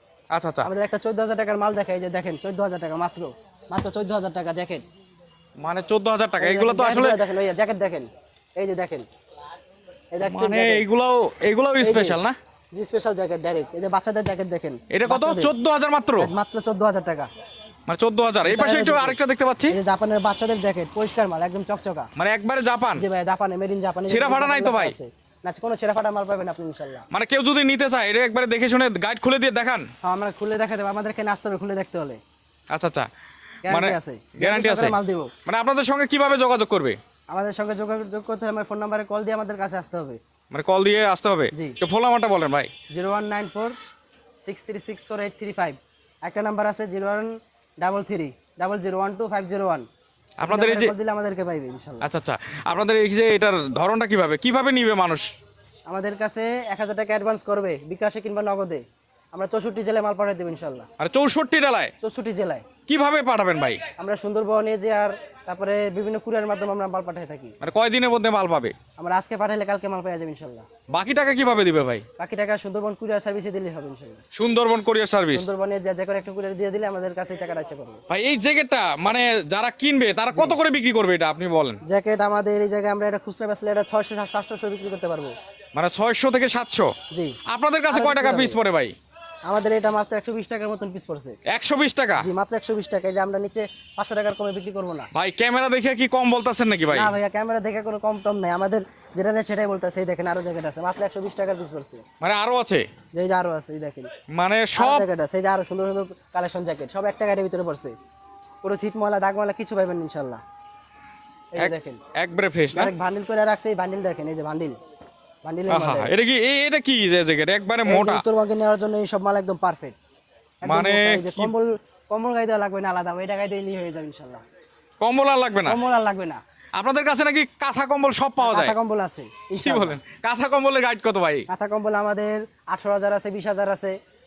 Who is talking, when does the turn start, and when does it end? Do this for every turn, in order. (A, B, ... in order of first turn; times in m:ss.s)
0:00.3-0:00.7 A
0:00.6-0:04.8 B
0:05.6-0:07.2 A
0:06.4-0:09.1 B
0:10.1-0:10.8 B
0:10.2-0:12.4 A
0:11.8-0:12.2 B
0:12.7-0:15.5 B
0:14.9-0:16.3 A
0:16.2-0:17.3 B
0:17.9-0:19.8 A
0:18.4-0:19.2 B
0:19.7-0:22.1 B
0:22.2-0:23.0 A
0:23.0-0:27.0 B
0:24.1-0:25.0 A
0:27.1-0:29.9 A
0:30.0-0:32.2 B
0:32.7-0:33.1 A
0:33.6-0:35.3 B
0:33.6-0:37.0 A
0:37.3-0:40.2 B
0:40.5-0:42.7 A
0:42.9-0:43.7 B
0:44.4-0:49.8 B
0:50.4-0:50.9 A
0:50.4-0:52.1 B
0:52.0-0:55.3 A
0:55.9-1:00.9 B
1:01.0-1:01.9 A
1:02.0-1:02.6 B
1:02.9-1:03.8 A
1:04.0-1:07.5 B
1:07.6-1:08.7 A
1:09.0-1:10.6 B
1:10.9-1:12.0 A
1:12.2-1:14.2 B
1:14.3-1:15.5 A
1:15.3-1:18.0 B
1:18.1-1:21.8 A
1:21.8-1:25.3 B
1:25.7-1:26.9 A
1:27.1-1:27.4 B
1:27.5-1:28.9 A
1:27.9-1:28.6 B
1:29.5-1:31.4 B
1:31.5-1:32.3 A
1:32.2-1:35.1 B
1:35.1-1:37.1 A
1:36.9-1:42.0 B
1:42.2-1:42.9 A
1:43.1-1:44.1 B
1:44.3-1:45.1 A
1:44.8-1:47.9 B
1:48.6-1:50.4 B
1:51.5-1:52.0 B
1:51.6-1:52.9 A
1:52.7-1:54.8 B
1:55.4-1:56.1 B
1:55.7-1:58.2 A
1:57.8-2:00.0 B
2:00.6-2:04.4 B
2:00.6-2:01.5 A
2:05.0-2:05.8 A
2:05.6-2:06.4 B
2:06.8-2:08.7 A
2:08.4-2:10.0 B
2:09.6-2:11.4 A
2:11.5-2:13.9 B